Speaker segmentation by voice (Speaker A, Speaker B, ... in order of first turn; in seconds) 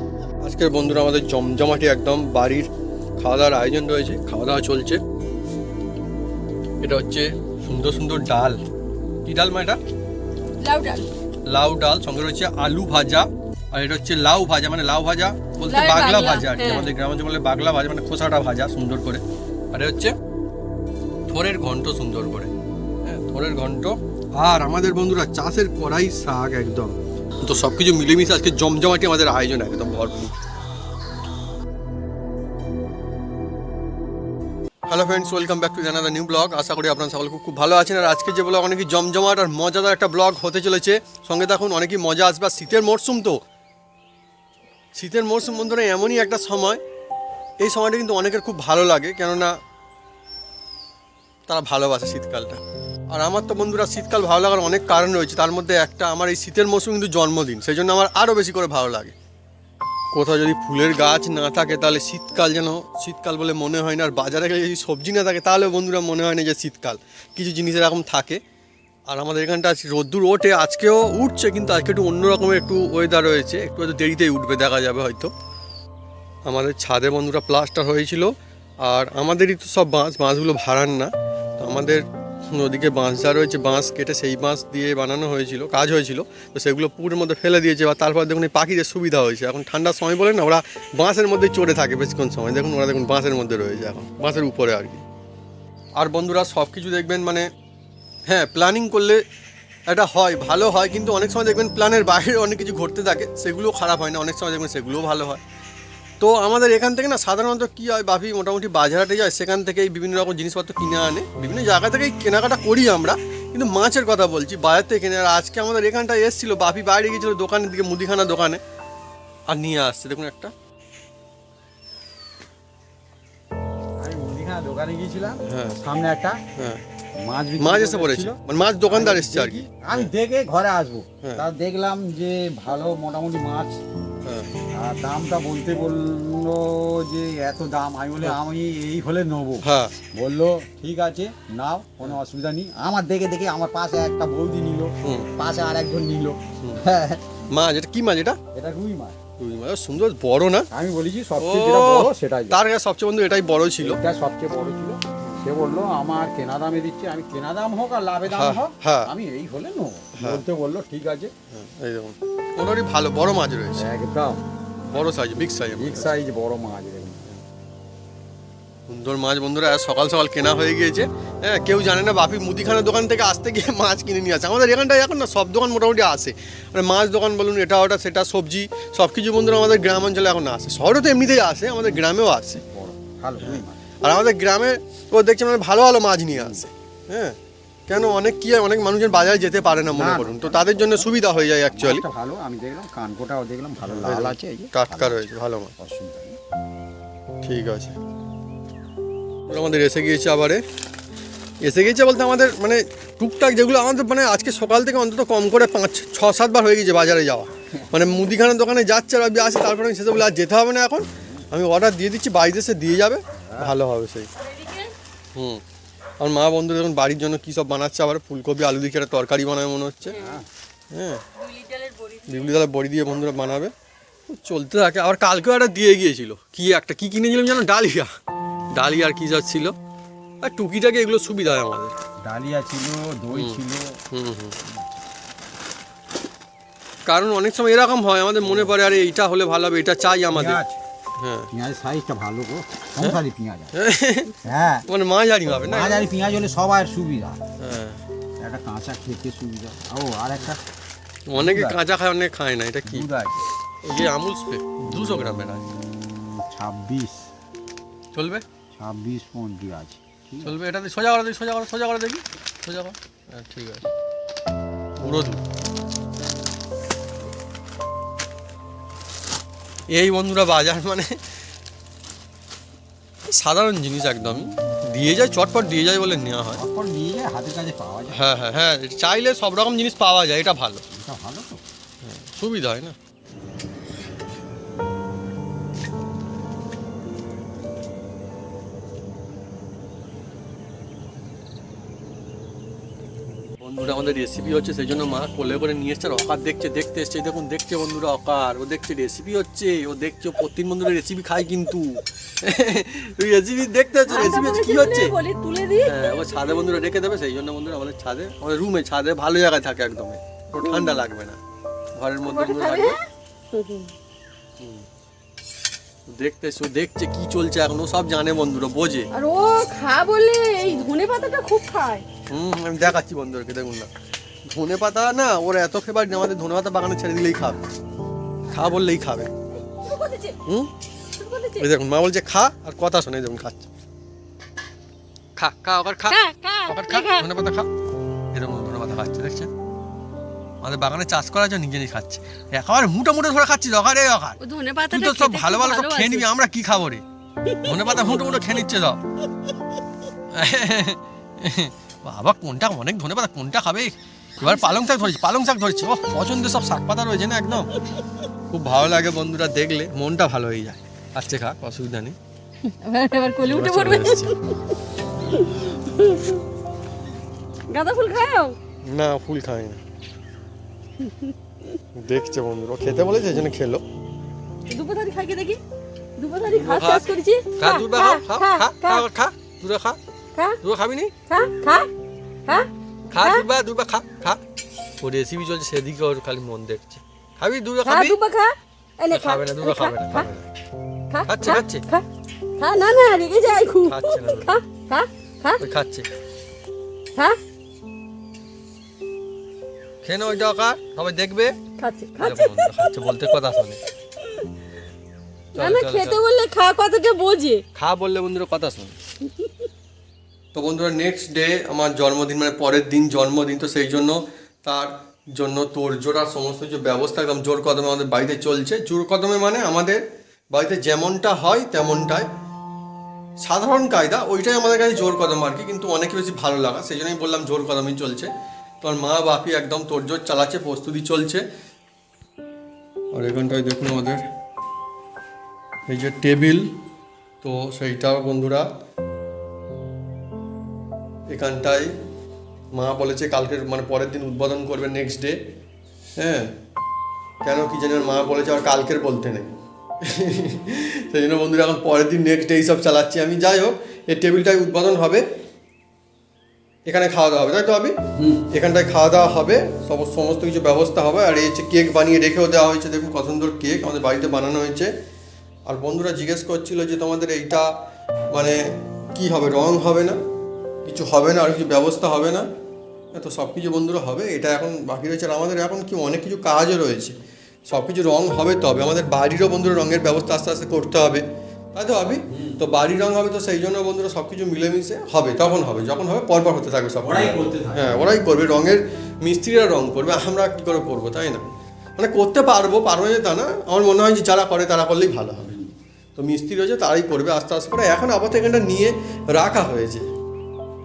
Speaker A: 0.4-5.0, 6.8-8.6, 9.2-9.8, 11.4-20.1, 21.3-22.5, 23.0-30.3, 34.9-43.4, 45.0-46.8, 47.6-49.5, 51.5-59.1, 60.1-68.4, 69.1-75.3, 76.5-78.3, 78.8-95.0, 96.0-97.5, 98.3-99.2, 99.9-105.4, 106.2-118.6, 119.5-120.5, 125.4-125.8, 127.6-130.1, 134.2-134.5, 139.6-139.9, 145.0-145.3, 147.5-148.4, 149.4-150.7, 151.4-154.0, 158.3-159.1, 160.1-160.4, 161.5-163.9, 164.8-166.1, 168.9-182.6, 183.4-187.3, 187.9-192.0, 193.8-195.7, 197.4-197.9, 199.5-200.6, 201.6-214.3, 215.3-215.6, 216.2-220.2, 220.9-221.2, 222.2-223.7, 224.3-228.1, 228.7-229.7, 230.4-231.9, 233.3-234.6, 237.1-240.6, 241.2-241.5, 243.7-244.3, 244.8-246.1, 247.6-248.0, 251.3-253.1, 253.8-255.7, 258.1-258.4, 260.4-263.9, 265.0-265.4, 269.9-271.2, 273.2-276.6, 278.1-280.8, 282.0-282.9, 293.4-305.1, 305.8-311.4, 311.9-312.9, 314.6-314.9, 316.1-319.1, 322.3-323.9, 324.5-327.6, 328.5-329.3, 330.4-330.7, 331.6-333.7, 335.4-337.7, 338.3-339.5, 340.6-344.4, 344.9-347.0, 347.6-349.0, 350.3-357.7, 358.5-362.1, 363.4-364.4, 368.9-369.8, 371.9-373.8, 376.5-377.1, 377.6-380.0, 380.6-381.1, 383.1-384.4, 385.0-388.2, 389.1-390.5, 391.2-391.8, 393.8-394.5, 395.6-396.1, 400.0-401.5, 402.2-403.8, 405.5-406.2, 407.7-408.9, 410.5-422.3, 423.4-428.3, 428.8-431.4, 433.1-434.2, 435.9-436.7, 437.4-438.7, 441.3-441.9, 442.7-445.4, 446.2-446.5, 447.4-449.5, 450.0-455.2, 456.9-457.9, 458.5-464.9, 465.7-467.7, 468.3-470.2, 470.8-472.5, 473.1-477.1, 477.7-491.4, 492.0-495.5, 496.1-500.1
Speaker B: 10.6-11.1, 15.7-16.9, 214.4-214.9, 221.4-222.2, 304.1-306.0, 310.6-311.0, 312.2-313.9, 319.1-322.0, 329.7-330.4, 331.2-331.7, 336.1-337.3, 344.4-346.3, 347.5-348.0, 354.4-354.8, 362.7-364.6, 365.3-366.4, 367.7-368.6, 371.0-371.3, 374.7-375.6, 376.2-379.0, 381.3-381.9, 382.5-383.4, 387.8-390.3, 391.1-392.0, 392.6-395.6, 401.8-403.1, 405.6-407.6
Speaker C: 124.0-126.4, 127.2-133.8, 134.8-147.2, 148.5-149.2, 150.7-152.6, 153.8-161.3, 163.8-164.4, 165.8-167.2, 182.6-183.8, 186.3-186.6, 189.9-195.2, 195.8-196.4, 213.3-213.7, 220.1-220.5, 232.2-234.0, 240.3-240.8, 241.5-243.7, 244.4-244.8, 245.6-247.4, 248.4-250.6, 251.3-251.8, 252.8-253.4, 256.0-257.3, 258.8-260.6, 276.6-278.2, 280.9-281.6, 458.2-458.4, 482.3-482.6, 487.0-488.1